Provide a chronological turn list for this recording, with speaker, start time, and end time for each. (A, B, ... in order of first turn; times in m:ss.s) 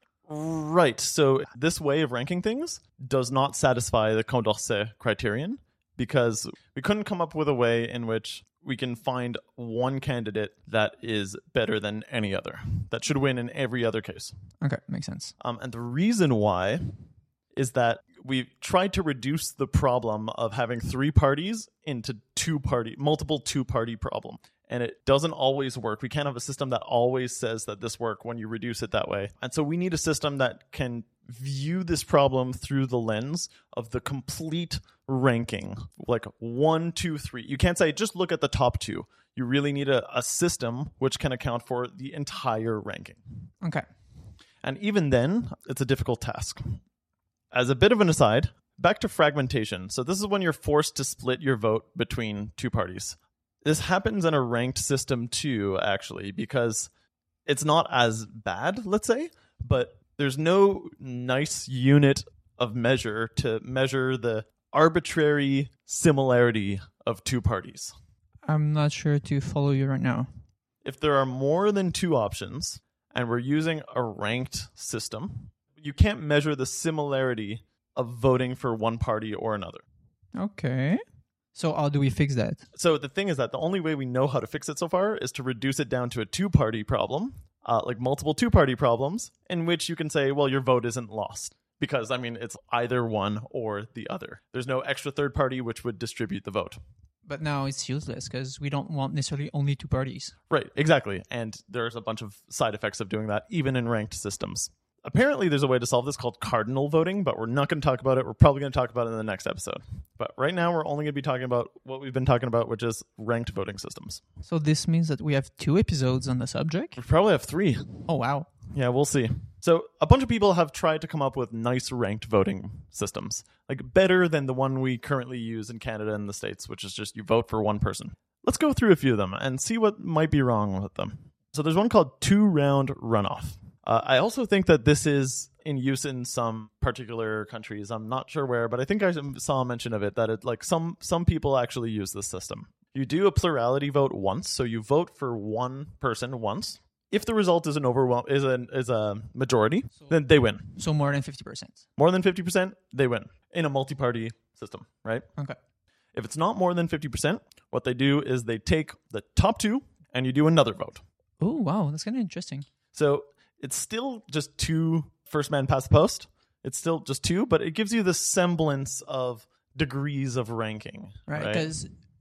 0:00.3-0:14.4 A
0:14.6-0:15.3 B
0:15.4-0:17.0 A
0:17.5-0:43.2 A
0:44.6-0:46.8 A
0:47.5-0:56.9 A
0:57.5-1:07.9 A
1:08.5-1:10.3 B
1:10.8-1:19.8 A
1:20.4-1:21.0 B
1:21.5-1:22.6 B
1:22.7-1:36.8 A
1:37.3-1:40.4 B
1:40.5-1:54.2 A
1:54.5-1:57.0 B
1:57.0-1:58.1 A
1:58.1-1:58.5 B
1:58.7-2:30.8 A
2:30.8-2:31.8 B
2:32.0-2:35.3 A
2:36.1-2:41.0 A
2:41.4-2:42.7 B
2:42.9-2:51.7 A
2:51.3-2:51.9 B